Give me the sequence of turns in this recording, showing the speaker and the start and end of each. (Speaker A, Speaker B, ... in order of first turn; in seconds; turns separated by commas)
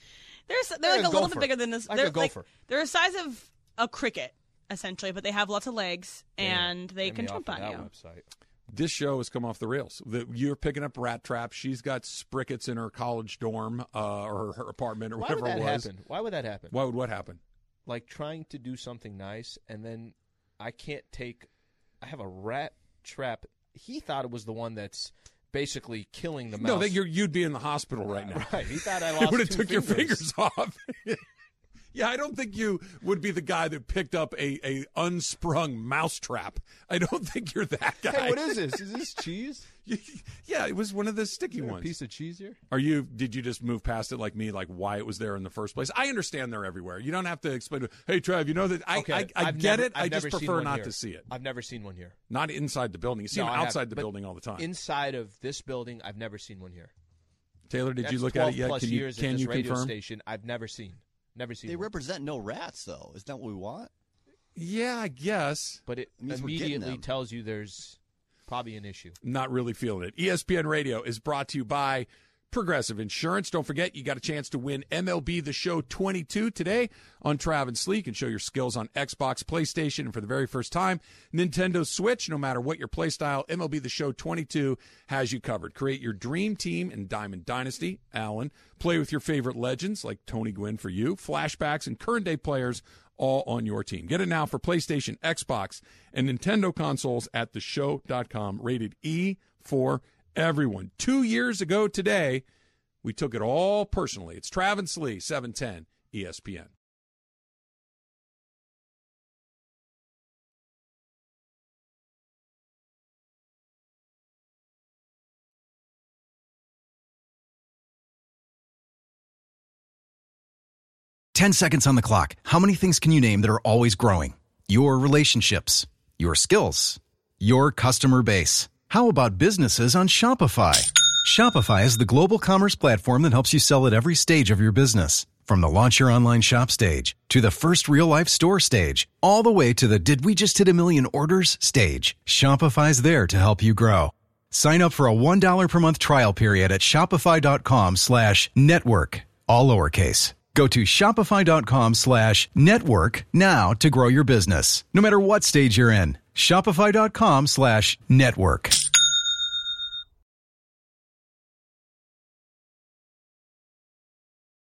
Speaker A: 0.5-7.9, Speaker B: 0.8-2.5, Speaker B: 6.4-8.3, Speaker C: 8.7-15.9, Speaker B: 15.2-16.8, Speaker C: 16.7-17.4, Speaker B: 17.9-21.5, Speaker B: 22.0-27.0, Speaker C: 26.6-31.2, Speaker B: 28.2-30.2, Speaker C: 31.9-38.7, Speaker B: 38.1-39.7, Speaker C: 39.9-41.9, Speaker B: 41.6-42.6, Speaker C: 42.7-51.3, Speaker B: 48.9-52.2, Speaker C: 52.3-54.7, Speaker B: 53.3-56.9, Speaker C: 57.7-59.9, Speaker B: 58.0-61.9, Speaker D: 61.7-63.9, Speaker C: 64.5-65.8, Speaker B: 65.9-69.2, Speaker D: 66.2-67.1, Speaker C: 69.2-102.4, Speaker C: 103.0-106.7, Speaker E: 121.3-158.9